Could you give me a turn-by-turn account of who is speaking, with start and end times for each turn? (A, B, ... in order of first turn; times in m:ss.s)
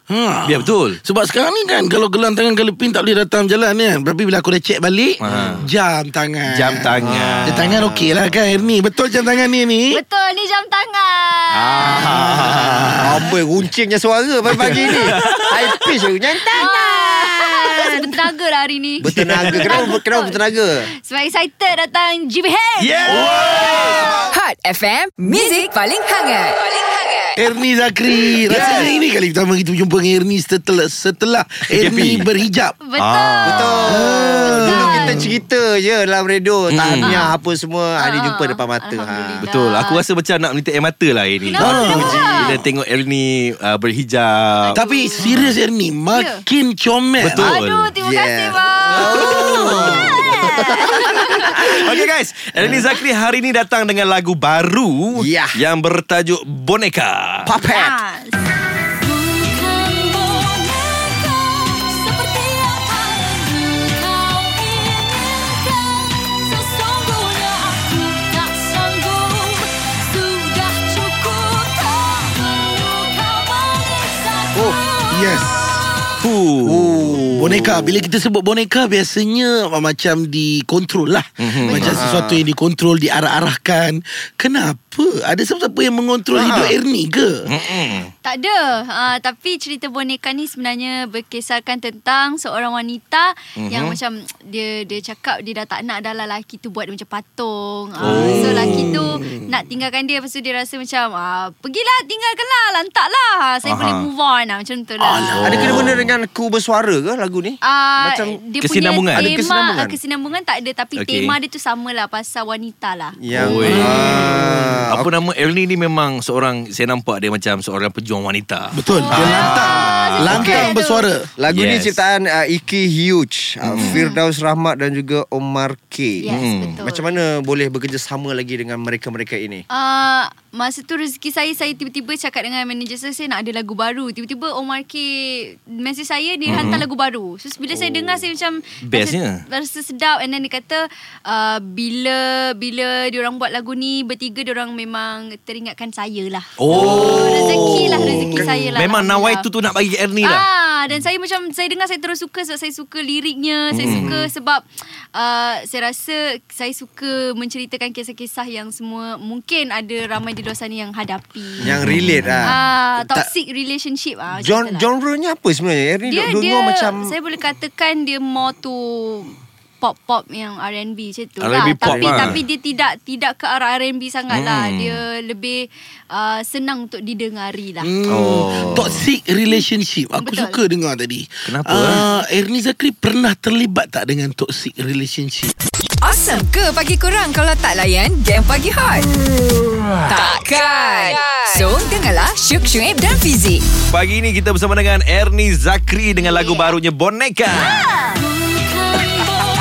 0:00.1-0:10.0 A
0:00.4-0:01.0 B
0:05.2-0:05.7 B
0:06.5-0:07.8 B
0:07.0-0:08.3 C
0:09.9-0:11.9 D
0:11.5-0:13.2 B
0:11.8-0:17.1 C
0:12.3-0:13.1 A
0:14.5-0:15.7 B
0:16.6-0:19.1 D
0:19.0-0:20.9 C
0:19.0-0:20.0 B
0:19.6-0:20.4 D
0:20.9-0:24.1 D
0:22.8-0:24.2 B
0:24.3-0:27.4 E
0:27.4-0:32.8 A
0:28.5-0:29.0 C
0:31.7-0:32.3 B
0:32.8-0:35.2 D
0:33.0-0:34.0 B
0:33.4-0:39.4 C
0:33.9-0:35.3 A
0:36.7-0:37.4 B
0:37.0-0:37.3 D
0:38.0-0:40.0 D
0:39.4-0:45.5 B
0:41.4-0:42.6 D
0:41.6-0:42.3 A
0:41.6-0:42.6 C
0:44.6-0:45.4 D
0:44.7-0:47.5 A
0:46.1-0:46.4 D
0:47.2-0:47.9 B
0:47.4-0:51.6 D
0:48.0-0:51.8 C
0:48.9-0:57.5 B
0:52.6-0:52.8 C
0:55.2-0:55.6 C
0:57.5-0:58.0 C
0:57.6-0:58.4 D
0:59.1-1:14.4 E
1:15.1-1:15.8 A
1:16.2-1:17.0 B
1:16.6-1:18.1 C
1:17.2-1:17.6 D
1:17.3-1:27.5 A
1:21.4-1:22.0 B
1:21.8-1:22.4 C
1:26.3-1:26.8 C
1:27.5-1:28.1 B
1:28.2-1:45.5 D
1:33.6-1:34.0 B
1:38.0-1:39.6 A
1:38.0-1:39.0 B
1:43.6-1:44.1 B
1:45.0-1:45.9 A
1:45.4-1:46.1 B
1:45.4-1:48.4 C
1:47.6-1:53.2 D
1:48.6-1:49.4 B
1:49.1-1:50.0 C
1:51.0-1:51.4 B
1:53.2-1:55.1 C
1:53.3-2:00.6 B
1:53.6-1:54.5 A
1:58.7-2:01.3 A
1:58.9-2:01.1 D
2:00.3-2:00.8 C
2:01.4-2:09.6 C
2:01.5-2:02.0 B
2:03.6-2:04.0 B
2:03.8-2:04.2 D
2:06.2-2:07.2 D
2:06.3-2:06.8 B
2:09.7-2:29.5 D
2:16.5-2:16.8 B
2:16.5-2:16.8 C
2:17.9-2:18.2 C
2:18.9-2:19.4 B
2:26.6-2:30.5 B
2:26.7-2:28.7 C
2:28.0-2:28.5 A
2:30.2-2:41.7 D
2:33.7-2:34.2 B
2:33.8-2:34.3 C
2:41.6-2:42.6 C
2:41.6-2:42.5 B
2:42.4-2:44.9 D
2:44.3-2:47.1 C
2:46.1-2:57.9 D
2:51.4-2:52.4 B
2:51.8-2:52.2 C
2:54.3-2:55.0 B
2:57.8-3:05.5 A
2:58.1-2:59.1 B
3:00.2-3:00.6 D
3:01.5-3:02.0 B
3:06.0-3:09.1 E
3:10.1-3:13.6 E
3:13.9-3:17.9 B
3:16.3-3:16.7 D